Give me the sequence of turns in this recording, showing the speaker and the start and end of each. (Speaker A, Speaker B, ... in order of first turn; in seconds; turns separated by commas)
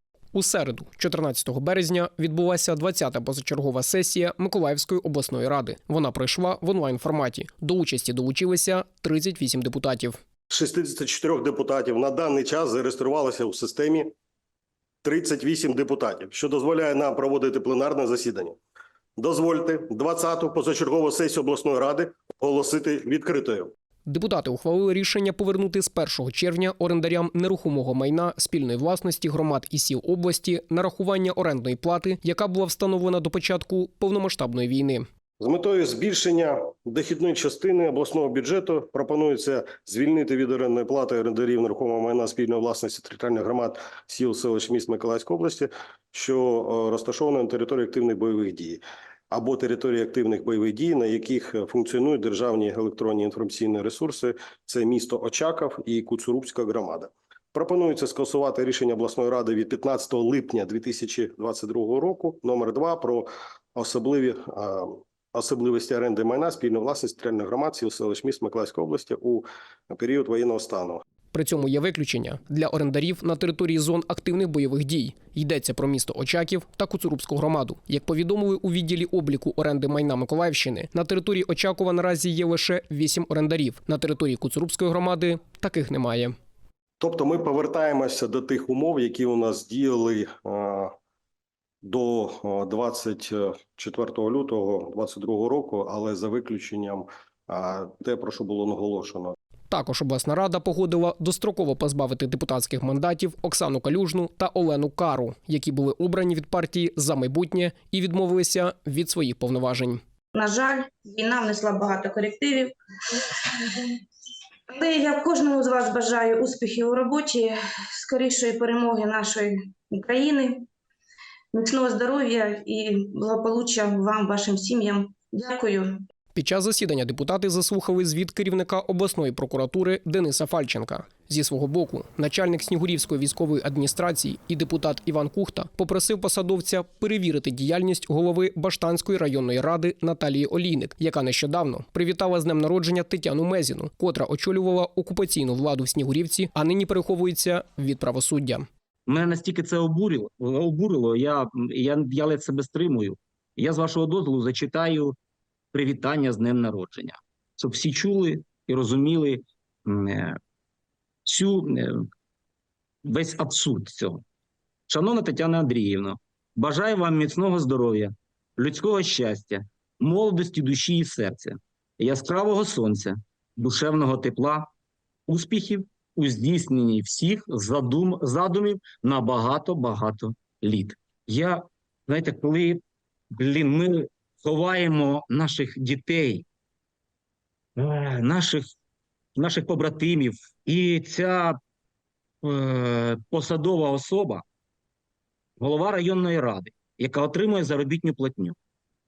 Speaker A: 0.3-10.2, Speaker B: 10.5-14.1, Speaker B: 15.0-18.6, Speaker B: 19.2-23.7, Speaker A: 24.1-35.0, Speaker B: 35.4-71.0, Speaker A: 71.3-86.3, Speaker B: 87.0-90.9, Speaker B: 91.8-99.3, Speaker A: 99.7-110.0, Speaker C: 110.3-113.9, Speaker C: 114.7-120.7, Speaker C: 121.5-126.0, Speaker A: 126.3-148.7, Speaker D: 149.1-155.2, Speaker D: 155.7-160.4, Speaker D: 161.2-162.1, Speaker D: 163.1-164.2, Speaker D: 164.9-174.7, Speaker D: 175.3-186.5, Speaker D: 187.8-188.7, Speaker D: 189.4-191.6, Speaker D: 192.4-194.4, Speaker D: 195.6-198.6